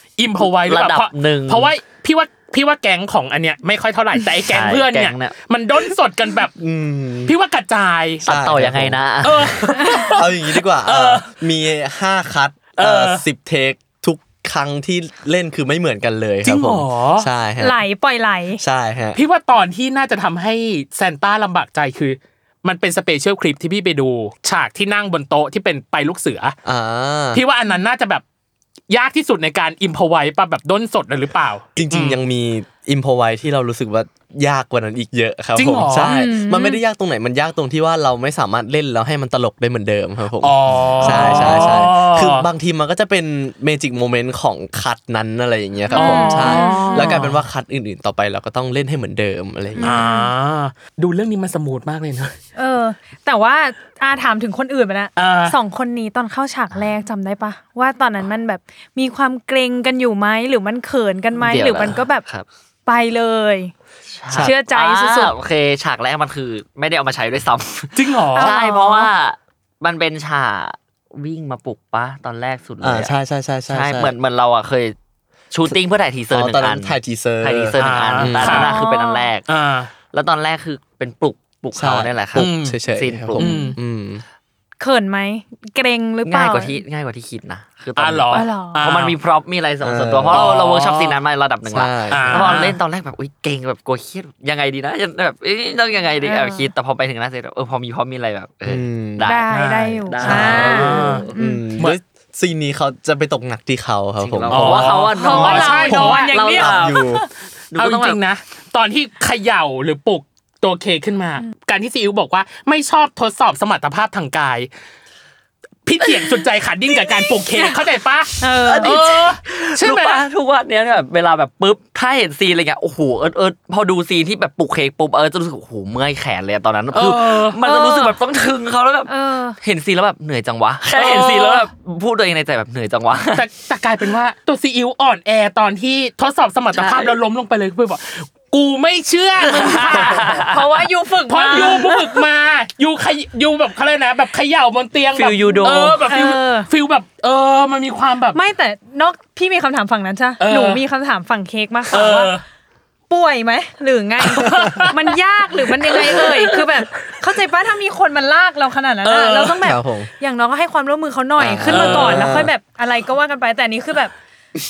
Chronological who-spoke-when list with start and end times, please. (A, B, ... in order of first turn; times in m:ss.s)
0:00.2-0:06.5 A
0:00.7-0:01.7 B
0:04.5-0:05.4 B
0:06.6-0:07.3 C
0:07.3-0:08.3 A
0:08.2-0:17.8 C
0:08.3-0:09.5 B
0:09.2-0:11.3 A
0:09.8-0:10.1 D
0:12.8-0:13.2 A
0:16.4-0:17.3 A
0:17.6-0:18.6 D
0:18.6-0:19.2 C
0:19.2-0:26.6 A
0:26.6-0:27.4 C
0:27.3-0:28.2 A
0:28.9-0:32.2 A
0:31.8-0:50.0 C
0:35.6-0:36.1 A
0:36.0-0:36.8 D
0:40.4-0:42.5 A
0:41.0-0:41.7 D
0:45.9-0:47.2 D
0:45.9-0:47.4 A
0:49.8-0:52.4 A
0:49.8-0:50.3 D
0:52.6-1:02.3 D
0:55.2-0:55.6 A
1:01.4-1:02.4 B
1:02.9-1:03.7 D
1:04.1-1:13.2 B
1:04.3-1:05.4 D
1:08.0-1:08.5 A
1:08.4-1:09.1 D
1:12.8-1:14.1 C
1:13.7-1:15.0 B
1:15.5-1:19.4 B
1:16.3-1:18.7 C
1:17.8-1:18.7 A
1:18.4-1:19.3 D
1:19.5-1:19.9 A
1:20.1-1:23.7 B
1:21.8-1:24.2 C
1:22.4-1:22.8 A
1:23.4-1:23.8 A
1:23.4-1:23.7 D
1:24.8-1:26.8 D
1:26.2-1:41.4 B
1:28.0-1:29.2 A
1:28.3-1:28.8 D
1:29.8-1:30.6 C
1:30.3-1:31.2 A
1:31.7-1:32.6 C
1:32.1-1:32.8 A
1:36.2-1:36.7 D
1:38.7-1:39.3 C
1:39.2-1:41.7 D
1:39.5-1:41.2 A
1:41.4-1:45.0 C
1:44.2-1:47.1 B
1:44.5-1:46.8 A
1:45.2-1:47.3 D
1:45.8-1:47.2 C
1:47.7-1:48.2 B
1:47.8-1:54.7 A
1:55.9-2:00.2 A
1:56.0-1:56.3 B
1:56.9-1:57.6 B
1:58.4-1:58.9 D
1:58.6-2:13.5 B
2:06.9-2:08.0 A
2:07.6-2:08.1 D
2:09.1-2:09.6 D
2:10.9-2:11.7 A
2:13.3-2:20.4 A
2:16.7-2:17.2 B
2:19.4-2:20.7 B
2:19.9-2:22.1 D
2:21.3-2:28.4 A
2:25.1-2:26.1 B
2:26.1-2:26.7 D
2:28.3-2:32.4 D
2:30.4-2:30.8 A
2:31.9-2:32.4 A
2:33.1-2:44.1 D
2:34.3-2:36.6 A
2:39.0-2:39.6 A
2:39.6-2:40.1 C
2:41.4-2:42.5 C
2:41.7-2:42.3 A